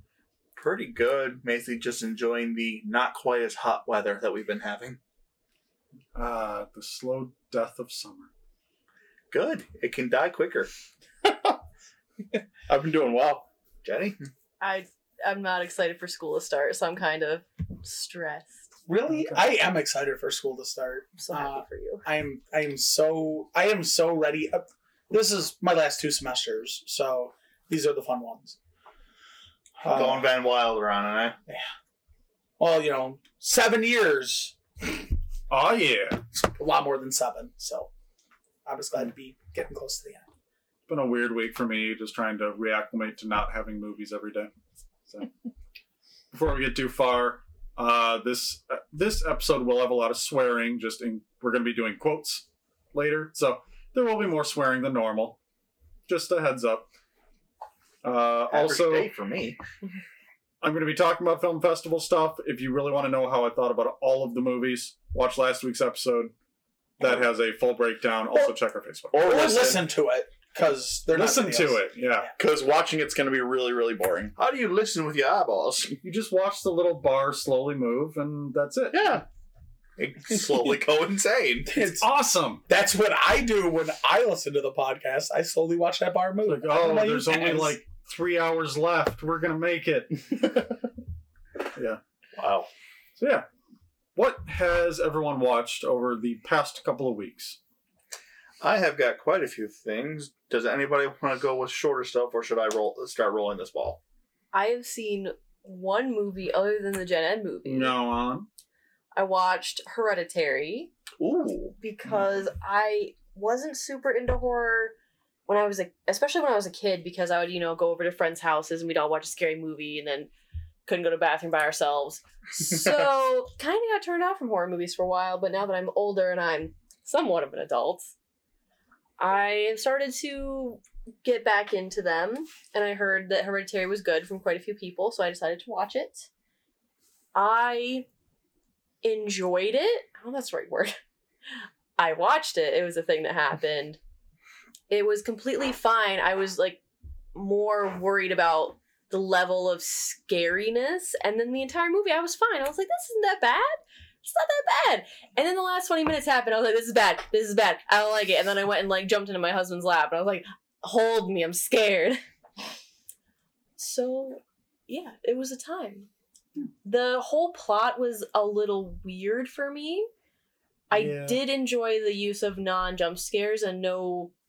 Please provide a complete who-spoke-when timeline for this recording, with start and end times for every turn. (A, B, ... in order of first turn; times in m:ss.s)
0:00.6-0:05.0 A
0:06.2-0:08.3 B
0:09.3-0:10.7 A
0:11.3-0:11.5 C
0:12.7-0:13.5 C
0:13.8-0:14.2 A
0:14.6-0:18.7 D
0:18.9-0:28.6 E
0:19.1-0:19.4 B
0:21.2-0:22.0 D
0:29.8-0:30.2 E
0:29.9-0:31.4 A
0:32.6-0:35.0 E
0:35.5-0:36.2 B
0:36.3-0:37.9 E
0:38.6-0:40.2 E
0:40.9-0:44.5 B
0:46.3-0:55.4 B
0:56.1-0:56.9 B
0:58.0-0:59.1 B
0:58.5-0:59.6 A
1:00.6-1:06.3 B
1:07.0-1:09.6 B
1:09.1-1:09.8 C
1:09.2-1:11.9 E
1:11.1-1:12.3 B
1:12.4-1:14.3 C
1:14.4-1:16.0 A
1:16.0-1:19.2 B
1:18.9-1:19.2 C
1:20.0-1:21.8 A
1:21.7-1:22.1 E
1:22.0-1:22.7 B
1:22.7-1:27.8 E
1:26.4-1:30.8 B
1:31.8-1:32.0 B
1:32.4-1:32.7 A
1:33.2-1:33.4 B
1:34.2-1:37.6 B
1:38.6-1:44.0 A
1:44.5-1:48.0 D
1:47.7-1:48.5 B
1:49.2-1:50.9 D
1:51.2-1:51.8 A
1:51.8-1:54.9 D
1:55.5-2:00.3 D
2:00.9-2:08.1 D
2:09.2-2:16.3 D
2:17.4-2:18.1 D
2:19.0-2:21.0 D
2:22.0-2:24.0 D
2:24.9-2:26.8 D
2:27.3-2:42.2 D
2:43.8-2:46.1 D
2:46.8-2:50.1 D
2:50.9-2:54.3 D
2:50.9-2:51.4 B